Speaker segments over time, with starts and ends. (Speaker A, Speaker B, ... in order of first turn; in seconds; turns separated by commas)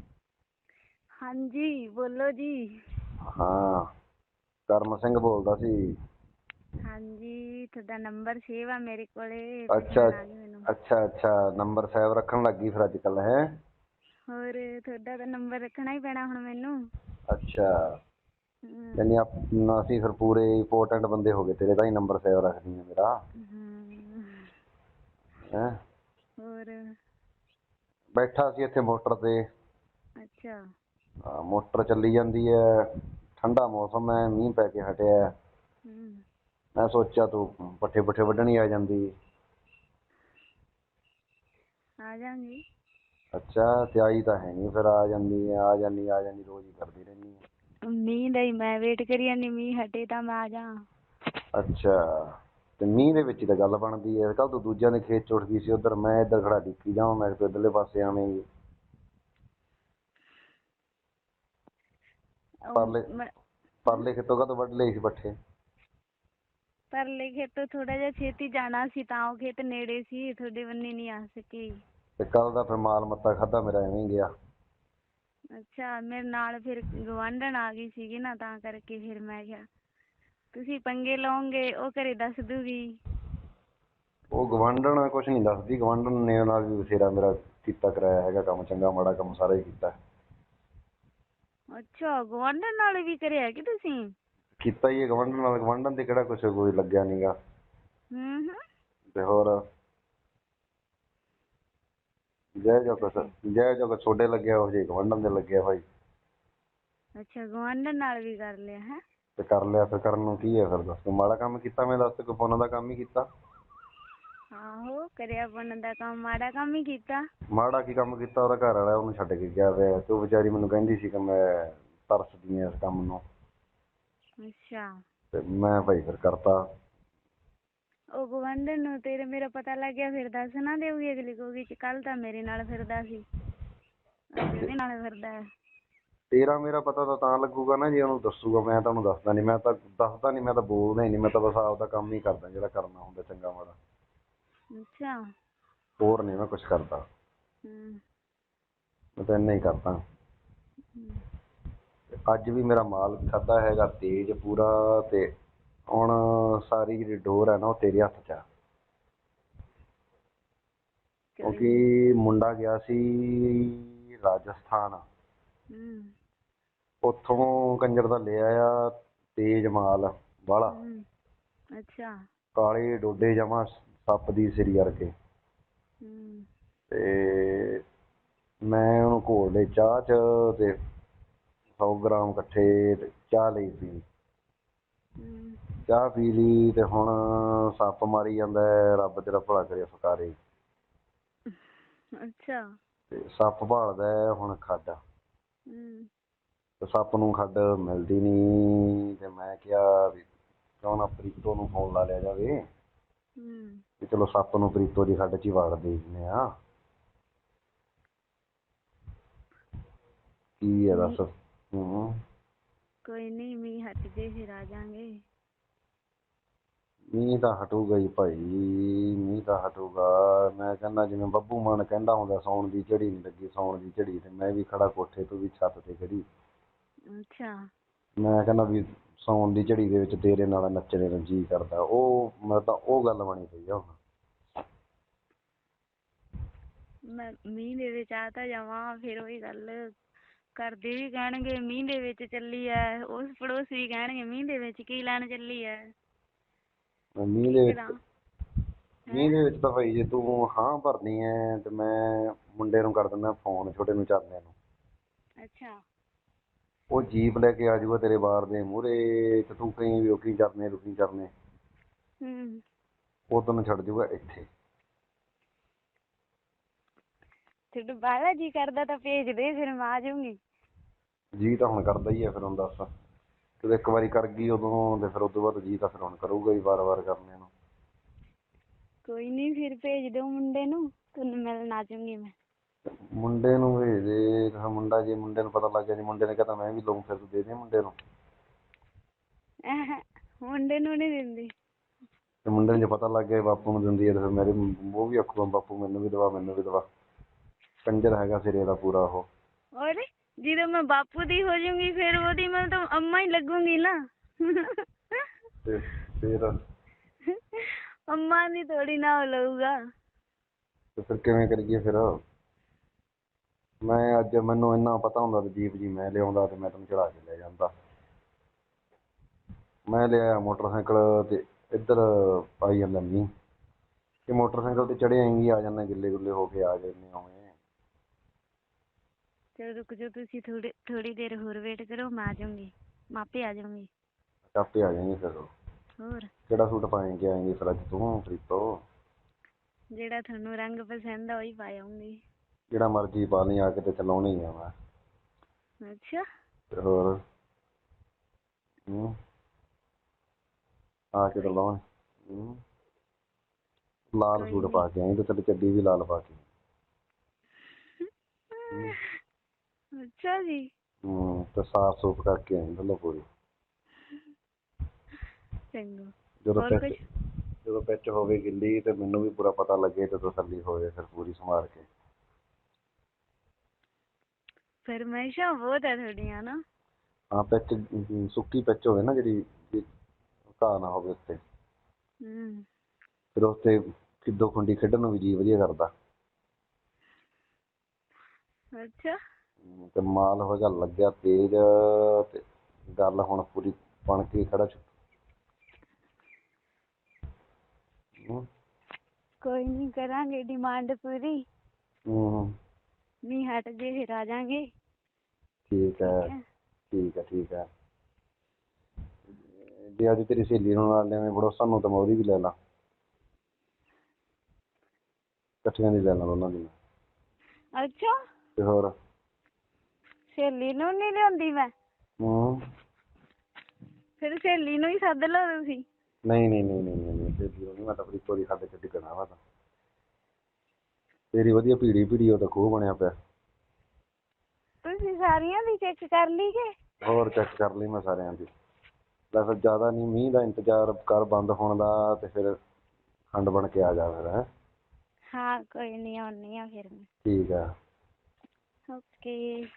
Speaker A: 1.2-2.6, Speaker B: 3.3-3.9, Speaker B: 4.7-5.8, Speaker A: 6.9-10.7, Speaker B: 9.7-10.2, Speaker B: 10.7-13.4, Speaker A: 14.3-16.8, Speaker B: 17.3-17.7, Speaker A: 18.7-19.0, Speaker B: 19.0-23.1, Speaker A: 23.4-24.5, Speaker A: 26.4-26.8, Speaker B: 28.2-29.4, Speaker A: 30.2-30.6, Speaker B: 31.3-32.9, Speaker B: 33.4-35.2, Speaker A: 35.9-36.2, Speaker B: 36.8-39.1, Speaker A: 42.0-42.6, Speaker B: 43.4-47.4, Speaker A: 47.9-50.7, Speaker B: 51.5-58.4, Speaker A: 62.7-63.3, Speaker B: 62.8-63.0, Speaker B: 63.9-65.3, Speaker A: 66.9-71.7, Speaker B: 72.2-74.3, Speaker A: 75.6-79.6, Speaker A: 80.5-82.8, Speaker B: 84.3-89.9, Speaker A: 91.7-94.1, Speaker B: 94.6-97.3, Speaker A: 98.1-98.6, Speaker B: 99.1-99.6, Speaker B: 102.6-105.8, Speaker A: 102.9-103.3, Speaker A: 107.2-109.0, Speaker B: 109.4-113.3, Speaker A: 114.6-117.2, Speaker B: 117.5-123.2, Speaker A: 124.4-124.9, Speaker B: 125.3-126.6, Speaker A: 128.2-133.2, Speaker A: 134.4-135.3, Speaker B: 134.4-134.7, Speaker B: 136.3-143.8, Speaker A: 144.8-145.2, Speaker B: 146.0-147.0, Speaker A: 147.7-148.0, Speaker B: 149.2-150.0, Speaker A: 151.0-151.2, Speaker B: 152.3-155.3, Speaker B: 155.9-158.4, Speaker A: 161.3-161.8, Speaker B: 161.4-165.0, Speaker A: 165.7-166.1, Speaker B: 167.0-170.8, Speaker A: 170.7-171.0, Speaker A: 171.8-172.1, Speaker B: 172.6-175.1, Speaker A: 176.0-176.5, Speaker B: 176.9-177.8, Speaker B: 178.7-180.7, Speaker B: 181.8-184.0, Speaker A: 185.2-185.6, Speaker B: 185.9-190.4, Speaker A: 192.2-192.6, Speaker B: 193.1-195.0, Speaker A: 195.7-196.1, Speaker B: 196.8-200.2, Speaker B: 200.8-202.6, Speaker A: 203.4-203.8, Speaker B: 204.0-206.4, Speaker B: 210.6-212.2, Speaker A: 210.9-211.2, Speaker A: 213.1-215.1, Speaker B: 217.1-226.2, Speaker A: 227.1-227.6, Speaker B: 228.2-233.9, Speaker A: 237.1-239.8, Speaker A: 240.6-245.8, Speaker B: 247.2-247.8, Speaker A: 247.4-248.0, Speaker A: 249.1-249.4, Speaker B: 249.1-254.5, Speaker A: 255.4-255.7, Speaker B: 256.9-261.3, Speaker A: 262.2-262.6, Speaker B: 263.3-264.5, Speaker A: 267.7-270.4, Speaker B: 271.4-272.9, Speaker B: 273.6-277.5, Speaker A: 279.1-282.3, Speaker B: 283.2-288.0, Speaker A: 289.7-291.5, Speaker B: 292.5-296.8, Speaker B: 297.9-299.3, Speaker A: 299.8-305.3, Speaker B: 305.6-306.5, Speaker A: 307.3-309.7, Speaker B: 311.0-312.1, Speaker B: 313.8-317.7, Speaker B: 319.9-323.3, Speaker B: 324.3-327.5, Speaker A: 329.6-333.9, Speaker B: 334.5-335.5, Speaker A: 336.0-336.3, Speaker B: 336.5-338.6, Speaker A: 339.9-342.2, Speaker B: 342.7-344.7, Speaker A: 345.9-346.2, Speaker B: 346.7-347.1, Speaker B: 348.9-349.1, Speaker B: 351.1-352.6, Speaker B: 354.1-356.4, Speaker A: 354.4-354.9, Speaker A: 358.6-359.0, Speaker B: 358.7-358.9, Speaker A: 360.0-360.7, Speaker B: 361.1-363.2, Speaker A: 365.7-367.0, Speaker B: 366.4-367.0, Speaker B: 367.6-371.9, Speaker A: 374.9-376.6, Speaker B: 377.3-379.9, Speaker B: 380.6-381.4, Speaker A: 382.2-382.6, Speaker B: 383.4-385.9, Speaker A: 388.8-389.2, Speaker B: 389.7-392.4, Speaker B: 393.0-394.9, Speaker B: 398.2-398.5, Speaker A: 399.4-401.4, Speaker B: 402.1-402.5, Speaker A: 403.3-404.7, Speaker B: 405.7-406.3, Speaker A: 406.0-406.4, Speaker B: 406.9-407.7, Speaker B: 409.8-412.5, Speaker B: 415.6-416.8, Speaker A: 417.8-418.1, Speaker B: 418.6-418.9, Speaker A: 420.3-421.7, Speaker B: 422.2-422.6, Speaker A: 424.2-425.9, Speaker B: 426.3-429.4, Speaker B: 431.3-433.1, Speaker A: 434.9-436.7, Speaker B: 437.1-438.5, Speaker B: 439.3-442.5, Speaker B: 443.3-444.4, Speaker A: 445.3-447.1, Speaker B: 447.3-447.6, Speaker A: 448.9-449.6